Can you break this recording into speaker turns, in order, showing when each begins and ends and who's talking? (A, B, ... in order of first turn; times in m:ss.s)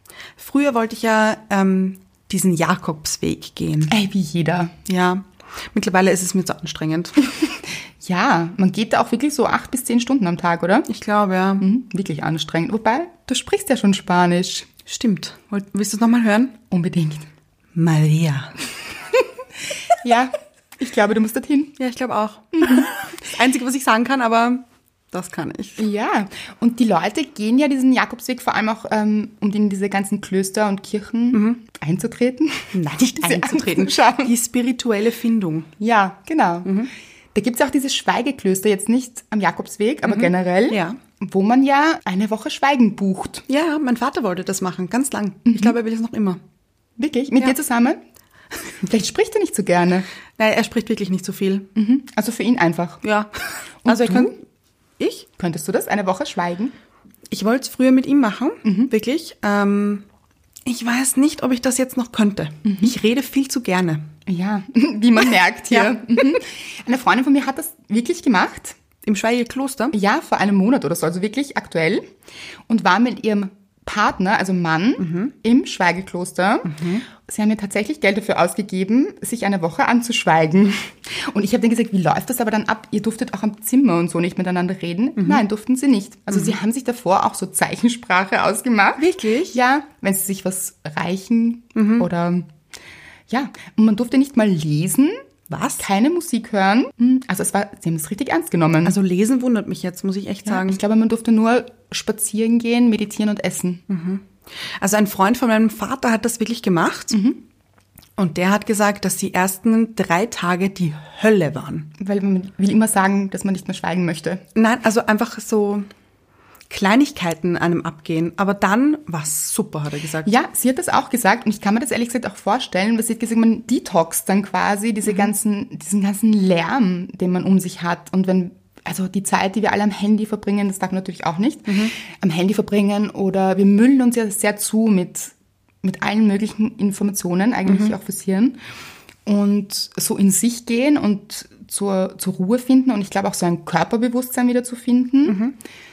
0:00.4-0:04.0 A
0:03.9-0:04.8 B
0:04.9-0:07.3 A
0:08.0-0:10.9 B
0:10.9-0:11.6 A
0:11.6-0:14.7 B
0:14.8-0:16.6 A
0:16.7-0:17.2 B
0:17.7-0:18.6 A
0:19.9-0:21.8 B
0:21.8-0:25.8 A
0:22.6-0:22.9 B
0:25.8-0:34.3 B
0:31.3-0:31.6 A
0:32.7-0:35.7 A
0:35.8-0:43.4 B
0:36.6-0:36.9 A
0:40.0-0:41.0 A
0:43.5-0:46.4 A
0:45.5-0:45.8 B
0:47.0-0:48.0 B
0:48.7-0:50.1 B
0:50.4-0:51.7 A
0:51.8-0:53.0 B
0:53.0-0:54.4 A
0:53.8-0:54.4 B
0:55.0-0:55.3 A
0:55.4-0:56.7 B
0:57.3-1:00.0 A
0:58.6-0:58.9 B
1:00.6-1:04.1 A
1:02.6-1:02.9 B
1:04.2-1:08.8 B
1:05.7-1:06.0 A
1:09.0-1:09.9 A
1:09.9-1:12.0 B
1:12.7-1:32.5 B
1:15.0-1:15.3 A
1:16.6-1:17.0 A
1:25.2-1:25.4 A
1:29.0-1:29.6 A
1:31.8-1:32.1 A
1:33.3-1:35.2 B
1:35.5-1:35.8 A
1:35.8-1:39.0 B
1:38.8-1:40.8 A
1:40.4-1:43.8 B
1:43.9-1:47.2 A
1:47.1-1:47.4 B
1:48.2-1:51.9 A
1:52.0-1:54.4 B
1:54.6-1:55.8 A
1:56.7-2:00.3 A
2:00.2-2:18.6 B
2:05.1-2:05.3 A
2:11.7-2:11.9 A
2:17.7-2:17.9 A
2:19.2-2:25.4 B
2:25.3-2:25.5 A